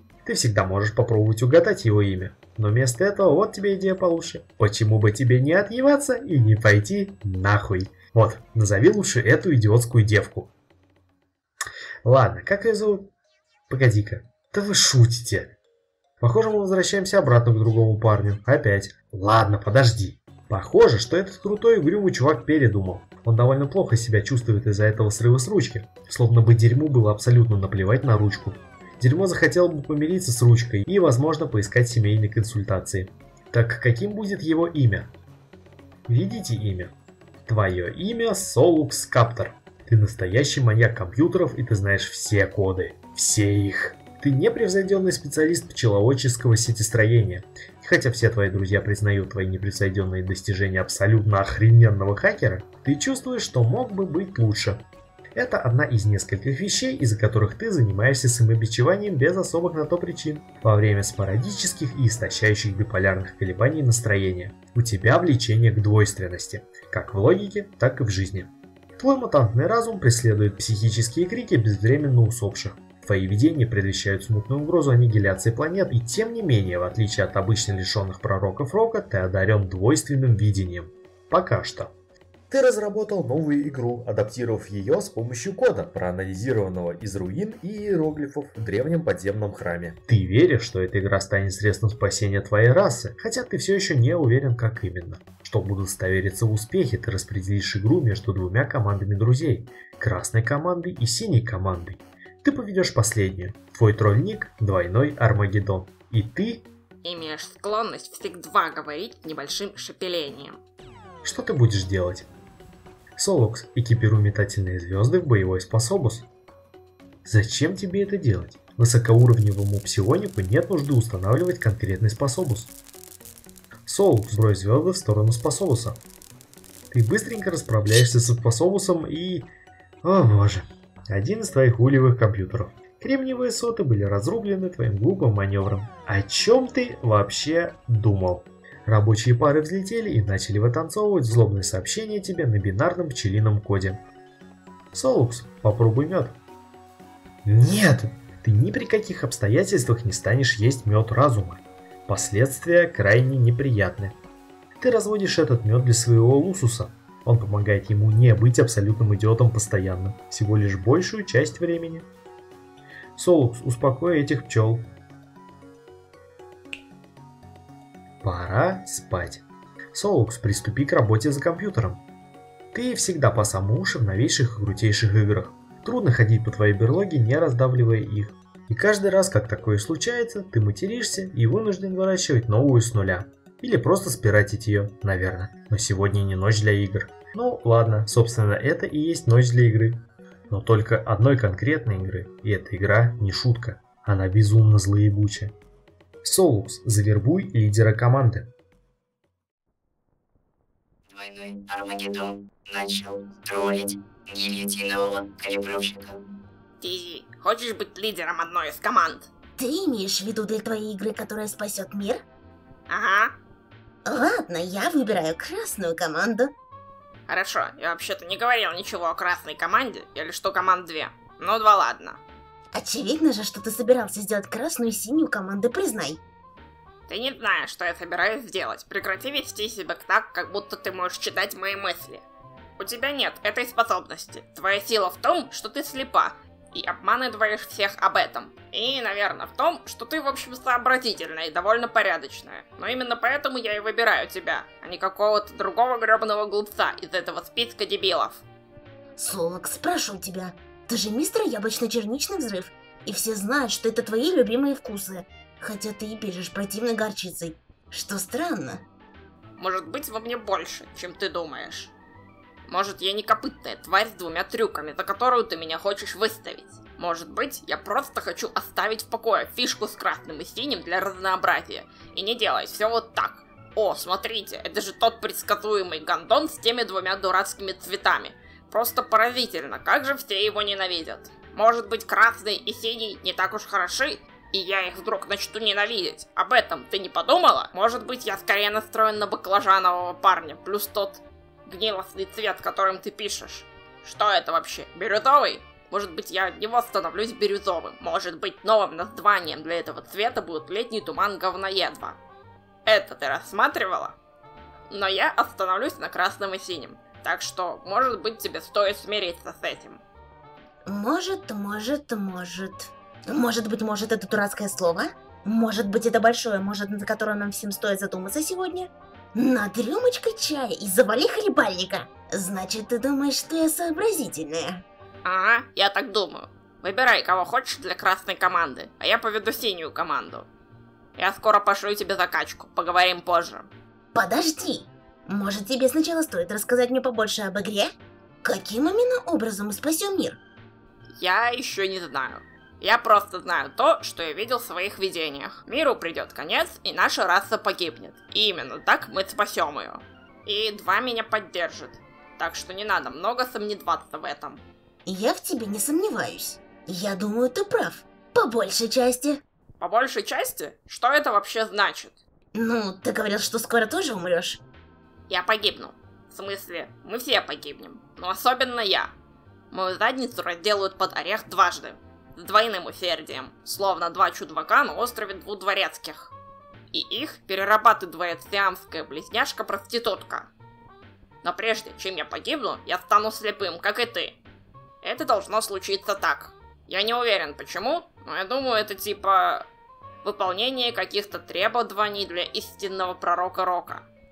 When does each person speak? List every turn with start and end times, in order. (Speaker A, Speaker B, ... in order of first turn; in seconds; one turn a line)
Speaker A: 0.2-10.5
Speaker A: 12.0-13.1
Speaker A: 13.7-15.5
Speaker A: 16.2-35.1
Speaker A: 36.1-36.9
Speaker A: 37.5-54.8
Speaker A: 55.4-68.5
Speaker A: 69.0-81.9
Speaker A: 82.5-106.6
Speaker B: 107.0-110.6
Speaker A: 111.2-112.2
Speaker A: 113.2-116.2
Speaker A: 117.2-122.7
Speaker A: 123.9-126.0
Speaker A: 126.9-129.4
Speaker A: 130.0-144.0
Speaker A: 144.9-146.3
Speaker A: 147.4-154.1
Speaker A: 154.8-162.0
Speaker A: 163.2-164.8
Speaker A: 168.2-169.4
Speaker A: 169.9-172.0
Speaker A: 172.7-190.0
Speaker A: 190.5-195.5
Speaker A: 196.2-198.5
Speaker C: 201.1-206.2
Speaker B: 206.8-209.3
Speaker D: 209.6-212.2
Speaker B: 212.9-213.3
Speaker D: 214.1-216.5
Speaker B: 217.3-222.2
Speaker D: 222.7-226.2
Speaker B: 227.1-232.2
Speaker B: 232.8-248.4
Speaker D: 249.2-258.8
Speaker B: 259.6-261.9
Speaker B: 262.7-302.2
Speaker B: 302.9-304.1
Speaker B: 304.9-310.0
Speaker D: 310.9-324.8
Speaker B: 325.2-330.5
Speaker B: 331.2-333.7
Speaker D: 334.1-337.9
Speaker D: 338.4-340.4
Speaker B: 341.2-354.6
Speaker D: 355.1-359.4
Speaker B: 359.8-362.1
Speaker D: 362.5-364.6
Speaker B: 365.3-369.1
Speaker B: 369.7-376.3
Speaker B: 376.9-380.5
Speaker B: 381.4-384.4
Speaker B: 385.0-389.6
Speaker B: 390.2-394.1